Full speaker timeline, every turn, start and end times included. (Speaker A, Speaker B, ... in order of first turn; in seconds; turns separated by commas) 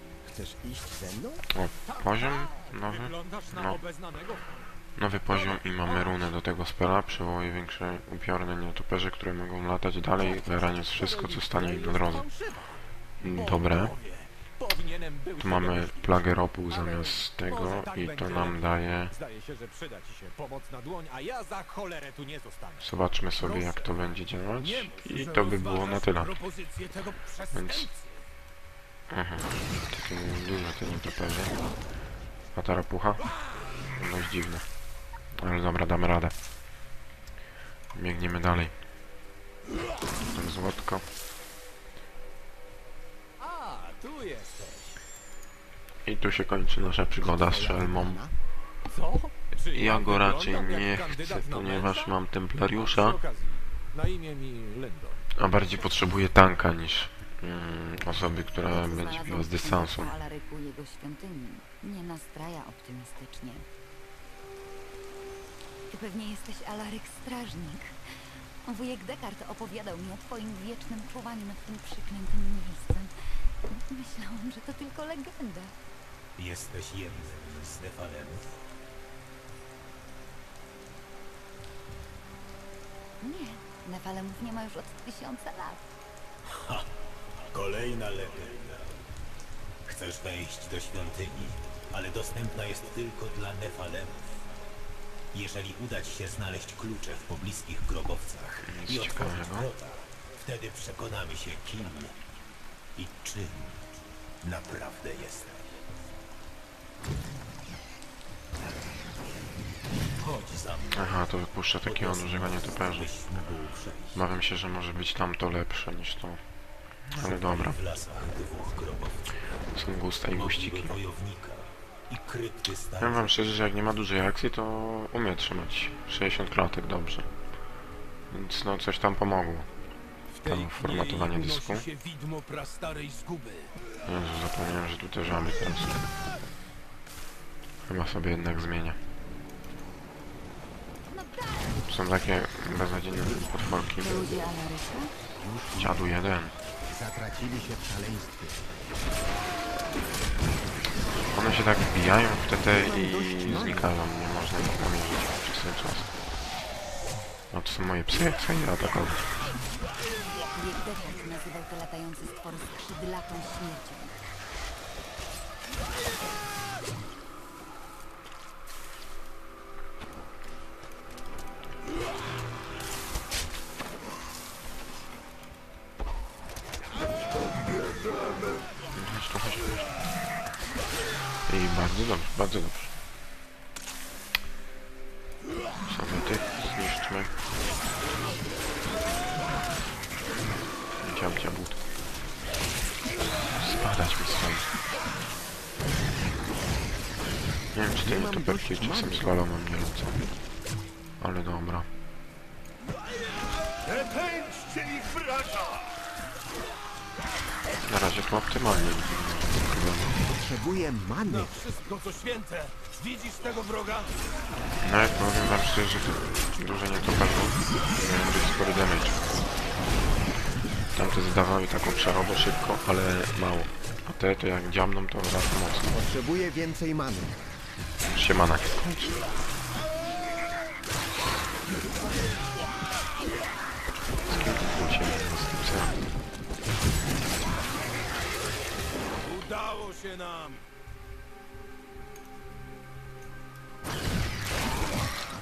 Speaker A: 0.2-1.5, Speaker B: 1.5-3.8, Speaker C: 1.9-4.6, Speaker B: 5.0-12.3, Speaker C: 5.3-6.3, Speaker C: 10.2-18.6, Speaker B: 13.2-13.9, Speaker B: 15.4-19.1, Speaker C: 19.1-22.9, Speaker B: 22.8-26.3, Speaker C: 23.4-28.2, Speaker B: 27.5-27.9, Speaker B: 29.1-31.6, Speaker B: 32.5-33.3, Speaker B: 33.9-34.7, Speaker B: 35.4-36.3, Speaker B: 37.9-38.7, Speaker B: 40.2-41.0, Speaker C: 43.4-45.0, Speaker B: 46.0-48.2, Speaker A: 47.1-48.4, Speaker C: 48.9-55.2, Speaker B: 49.7-53.2, Speaker B: 55.4-60.1, Speaker D: 58.7-63.7, Speaker D: 65.9-68.0, Speaker D: 68.6-73.1, Speaker D: 73.7-75.8, Speaker E: 76.4-78.4, Speaker D: 83.2-85.9, Speaker E: 86.5-86.9, Speaker E: 87.4-88.8, Speaker E: 89.9-94.2, Speaker E: 95.3-102.1, Speaker B: 98.6-99.7, Speaker E: 103.0-103.8, Speaker E: 104.4-105.7, Speaker E: 110.2-111.2, Speaker B: 110.9-113.1, Speaker E: 111.8-114.2, Speaker B: 114.1-116.4, Speaker B: 117.1-117.8, Speaker E: 117.2-119.3, Speaker B: 119.7-121.0, Speaker E: 120.3-123.3, Speaker B: 123.0-127.3, Speaker B: 128.3-129.7, Speaker C: 130.3-133.8, Speaker B: 130.4-131.9, Speaker B: 134.0-136.1, Speaker B: 137.9-139.0, Speaker D: 141.1-141.8, Speaker B: 141.8-144.3, Speaker D: 144.0-145.2, Speaker A: 145.2-146.1, Speaker B: 145.8-146.6, Speaker A: 146.8-148.7, Speaker B: 151.3-156.1, Speaker A: 152.7-154.0, Speaker B: 157.5-159.3, Speaker D: 160.4-164.3, Speaker B: 178.9-179.9, Speaker B: 181.5-182.9, Speaker B: 185.9-187.3, Speaker B: 191.0-191.8, Speaker B: 193.6-194.7, Speaker B: 197.7-200.2, Speaker A: 198.0-199.5, Speaker B: 201.2-201.9, Speaker C: 204.0-205.6, Speaker B: 207.9-210.2, Speaker A: 210.2-211.7, Speaker C: 211.2-214.2, Speaker B: 214.8-219.2, Speaker B: 220.9-225.9, Speaker A: 225.9-227.5, Speaker B: 228.1-229.2, Speaker B: 234.3-236.0, Speaker C: 239.2-240.6